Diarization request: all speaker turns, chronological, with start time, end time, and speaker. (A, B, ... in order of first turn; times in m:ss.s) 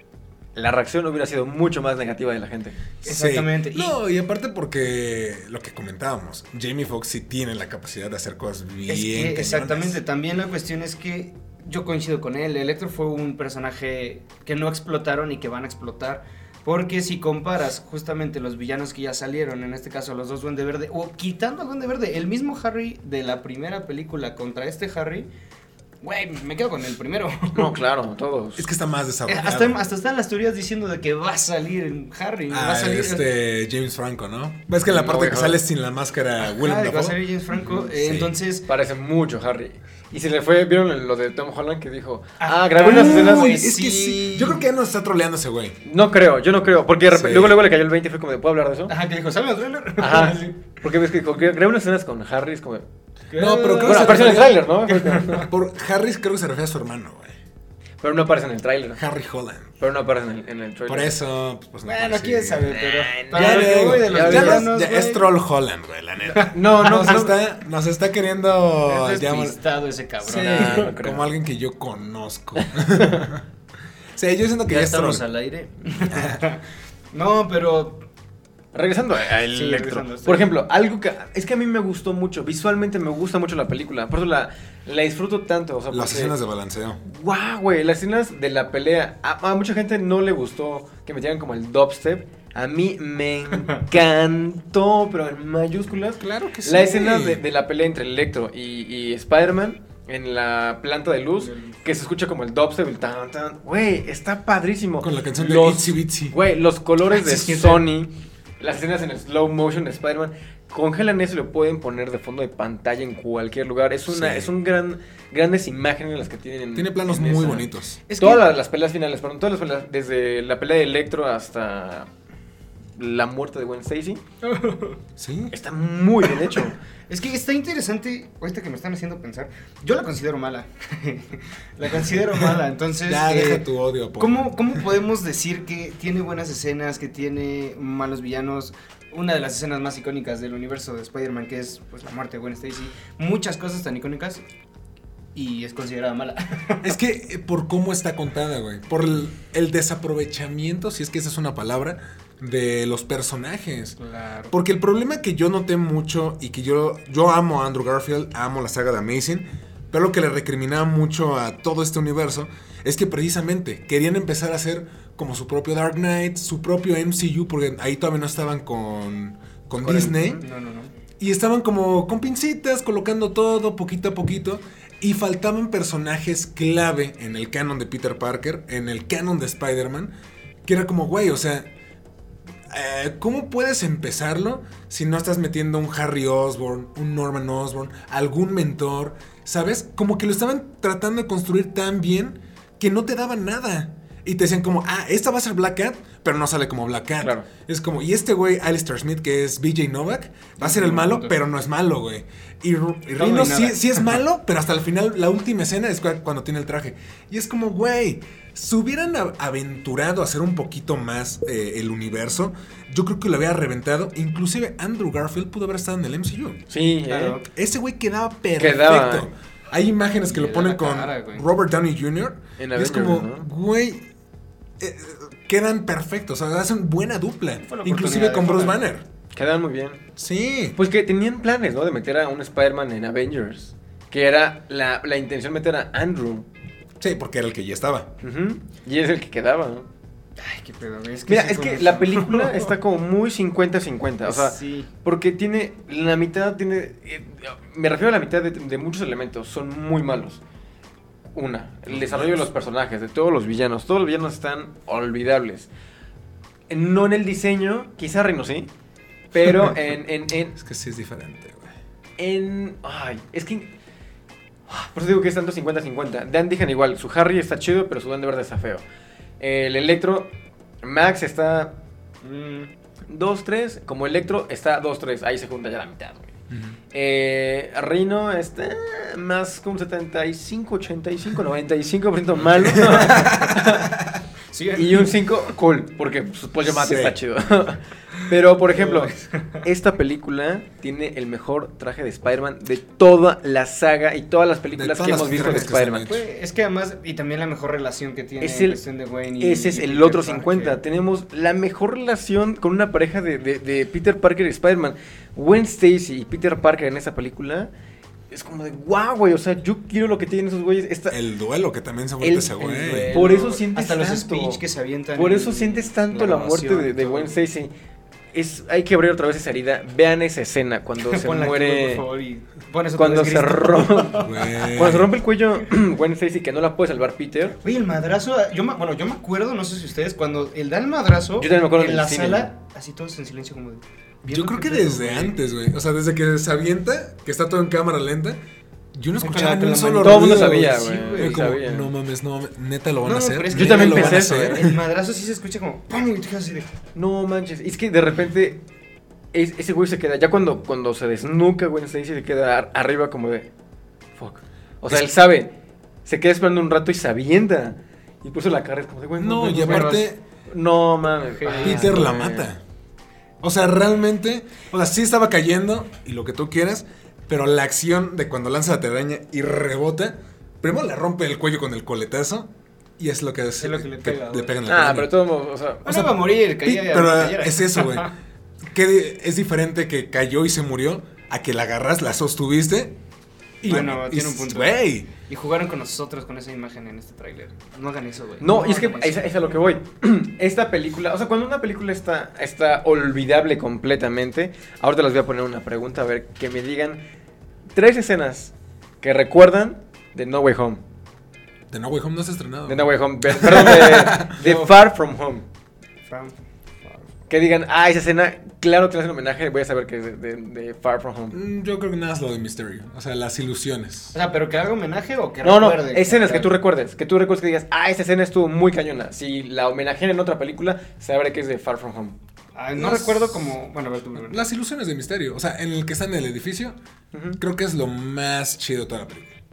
0:00.5-0:02.8 A
0:03.0-0:04.0 B
0:03.0-0:10.0 C
0:08.9-0:25.3 B
0:26.0-0:27.8 B
0:27.5-0:28.7 A
0:28.6-0:29.8 C
0:29.3-0:33.3 B
0:32.5-0:38.3 C
0:34.8-0:35.6 A
0:36.4-0:38.7 B
0:38.7-0:43.5 A
0:42.4-0:44.6 B
0:42.8-0:45.8 C
0:45.8-0:48.9 A
0:47.1-0:47.6 C
0:48.9-0:50.6 B
0:50.0-0:52.8 A
0:53.3-0:55.5 B
0:53.4-0:54.6 C
0:53.8-0:55.5 A
0:55.3-0:57.4 C
0:58.0-0:59.0 A
0:59.0-0:59.8 C
0:59.8-1:01.1 A
1:00.9-1:02.8 C
1:01.8-1:05.3 B
1:02.7-1:04.7 A
1:03.3-1:09.6 C
1:06.3-1:07.3 B
1:06.5-1:07.3 A
1:08.8-1:10.9 B
1:10.2-1:13.4 C
1:10.4-1:11.2 A
1:12.6-1:13.3 A
1:14.2-1:15.2 C
1:14.6-1:16.6 B
1:16.1-1:16.4 C
1:17.1-1:18.0 B
1:18.7-1:26.3 A
1:19.5-1:20.5 B
1:25.9-1:27.0 C
1:27.0-1:57.7 A
1:36.2-1:37.4 C
1:41.4-1:41.8 B
1:45.0-1:46.4 C
1:47.1-1:47.8 B
1:54.1-1:54.5 C
1:56.7-1:58.0 C
1:58.1-1:58.5 B
1:58.2-2:02.1 A
2:03.0-2:04.2 A
2:04.4-2:05.0 B
2:05.2-2:05.5 C
2:05.5-2:06.8 A
2:06.3-2:13.6 B
2:13.0-2:14.9 C
2:14.2-2:24.4 B
2:25.3-2:26.9 B
2:26.8-2:34.0 C
2:34.0-2:34.5 B
2:34.5-2:50.4 C
2:49.8-2:50.1 A
2:49.9-2:50.9 B
2:51.2-3:00.1 C
3:00.6-3:01.7 C
3:02.7-3:36.6 C
3:17.2-3:17.5 A
3:20.6-3:21.3 B
3:23.2-3:24.1 B
3:36.7-3:37.4 A
3:37.1-3:37.4 B
3:37.5-3:44.0 C
3:38.6-3:39.3 A
3:40.3-3:41.5 B
3:42.6-3:43.5 A
3:44.8-3:49.0 C
3:47.6-3:48.8 B
3:49.3-3:50.0 A
3:50.2-3:50.8 C
3:50.8-3:56.5 A
3:57.0-3:58.1 C
3:58.2-3:59.9 A
4:00.4-4:02.7 B
4:01.3-4:10.4 A
4:04.2-4:04.9 B
4:11.3-4:15.7 A
4:11.9-4:12.5 C
4:16.7-4:18.7 A
4:19.3-4:20.6 A
4:20.5-4:21.7 C
4:22.2-4:23.7 A
4:24.7-4:28.8 A
4:29.4-4:30.3 A
4:30.8-4:31.7 A
4:32.2-4:32.7 B
4:33.1-4:36.3 A
4:36.5-4:36.8 C
4:36.9-4:43.9 A
4:42.6-4:44.1 C
4:43.0-4:43.6 B
4:44.5-4:45.2 B
4:44.7-4:56.1 A
4:46.6-4:47.2 C
4:48.6-4:49.6 B
4:54.7-4:56.2 C
4:55.3-5:00.8 B
4:58.4-4:58.8 A
4:59.4-5:07.7 A
5:08.3-5:11.2 A
5:11.1-5:13.2 C
5:12.2-5:12.5 A
5:12.4-5:17.4 B
5:13.1-5:14.6 A
5:15.1-5:17.7 A
5:18.3-5:22.0 A
5:21.0-5:24.8 B
5:23.0-5:27.6 A
5:24.2-5:25.1 C
5:27.6-5:35.4 B
5:31.4-5:32.5 A
5:34.3-5:38.4 C
5:38.9-5:44.8 C
5:39.2-5:41.4 B
5:40.0-5:41.9 A
5:43.0-5:46.7 B
5:43.5-5:44.6 A
5:46.9-5:48.6 A
5:49.3-5:53.5 A
5:54.2-5:55.5 A
5:56.0-6:02.5 A
5:59.2-6:00.2 C
5:59.6-6:00.1 B
6:01.4-6:02.0 B
6:01.6-6:02.6 C
6:03.4-6:15.1 C
6:13.6-6:14.6 B
6:14.6-6:15.9 A
6:15.8-6:18.1 C
6:15.8-6:18.1 B
6:18.6-6:23.0 C
6:23.6-6:25.1 C
6:23.6-6:29.5 B
6:28.4-6:37.0 A
6:37.7-6:40.8 A
6:41.7-6:44.3 C
6:42.7-6:45.4 A
6:44.3-6:44.8 B
6:46.1-6:47.0 B
6:47.3-6:51.4 A
6:51.3-6:54.1 C
6:54.1-6:56.5 B
6:55.4-7:02.2 A
7:02.5-7:04.4 B
7:02.8-7:03.5 C
7:04.1-7:06.7 C
7:07.1-7:07.4 A
7:07.4-7:09.4 C